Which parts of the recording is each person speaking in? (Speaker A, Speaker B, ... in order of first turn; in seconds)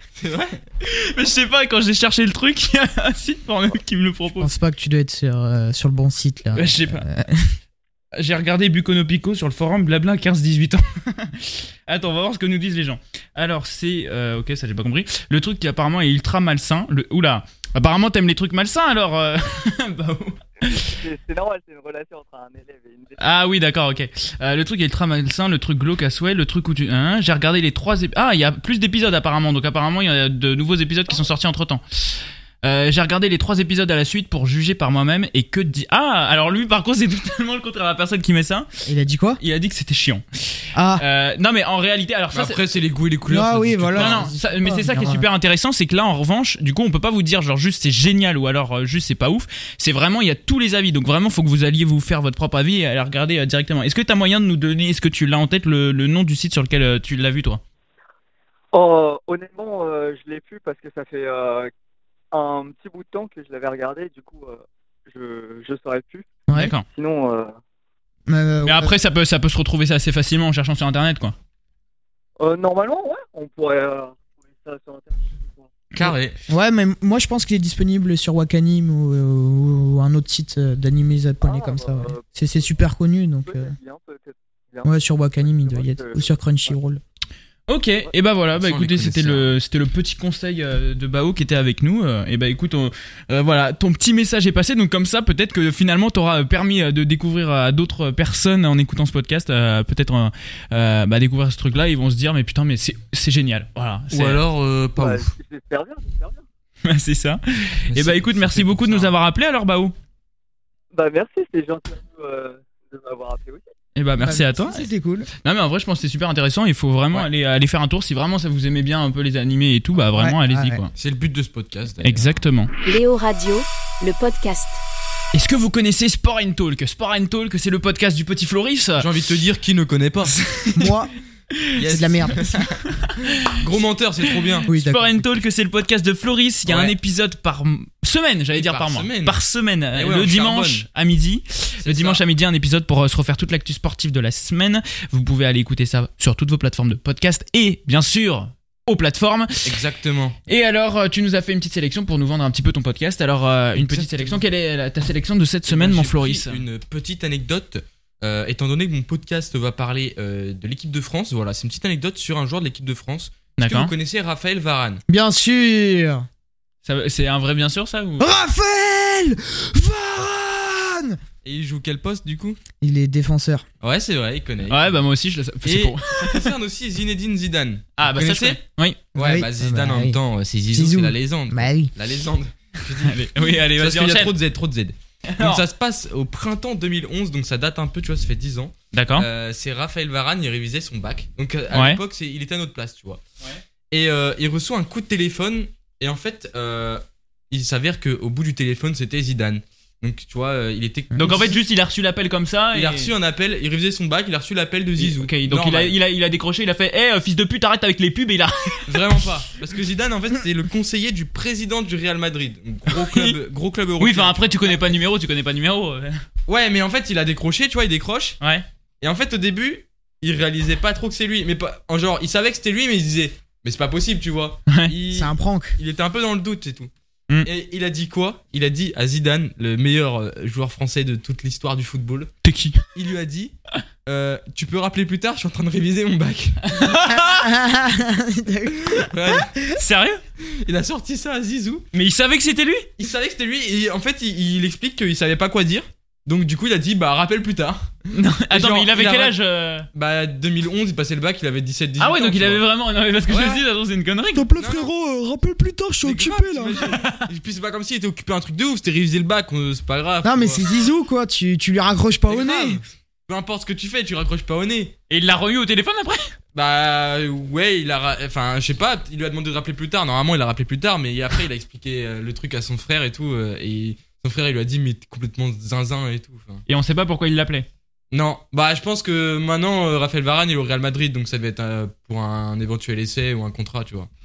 Speaker A: 0.1-0.6, 42.3-44.3, 75.9-76.3, 88.6-89.5, 104.1-105.3, 107.9-109.1, 120.9-122.3, 129.0-130.4, 131.8-132.8, 133.4-134.7, 136.7-136.9, 138.5-139.4, 139.9-140.8, 141.8-142.2, 149.6-150.4, 153.8-154.4, 155.7-165.0, 171.4-172.6, 173.8-174.9, 175.6-178.6, 179.1-193.2, 193.9-201.6, 202.7-205.9, 208.9-214.9, 216.5-218.4, 219.0-226.9, 227.4-232.3, 232.9-233.5, 234.1-236.8, 238.9-239.5, 240.6-241.9, 243.0-247.9, 248.5-249.4, 249.9-252.6, 253.3-253.6, 254.6-254.9, 256.0-260.6, 262.3-264.9, 266.5-276.6, 278.1-284.1
Speaker B: 0.8-4.5, 6.5-7.0, 8.2-21.0, 23.2-38.7, 39.4-42.6, 43.9-57.6, 66.5-66.8, 68.6-71.3, 87.7-104.4, 106.8-109.9, 114.0-114.9, 115.4-120.9, 122.0-122.7, 125.3-129.1, 130.5-130.9, 134.6-149.7, 150.5-156.6, 163.6-163.9, 166.8-168.3, 174.7-176.5, 178.0-179.0, 183.0-184.3, 185.3-185.6, 188.9-189.3, 191.7-192.0, 201.2-203.1, 205.0-209.0, 212.9-213.4, 214.0-216.2, 232.4-232.9, 236.7-237.5, 239.7-240.2, 241.9-242.9, 248.1-249.9, 252.0-254.5, 256.8-257.2, 265.1-266.3, 276.7-277.7
Speaker C: 4.4-7.5, 38.9-39.4, 40.7-41.0, 43.3-45.2, 66.5-66.7, 68.3-68.9, 76.1-83.7, 84.8-87.0, 114.2-115.3, 120.1-120.8, 130.7-131.1, 131.9-132.6, 134.7-135.2, 165.1-166.2, 168.2-171.2, 172.8-173.6, 179.1-180.2, 180.7-181.9, 225.1-225.8, 237.1-239.6, 254.3-256.9, 260.2-262.8
Speaker D: 20.6-23.2, 58.7-61.7, 62.3-67.5, 72.4-75.7, 81.4-82.6, 83.4-86.7, 105.0-106.4, 110.9-113.6
Speaker E: 122.8-124.8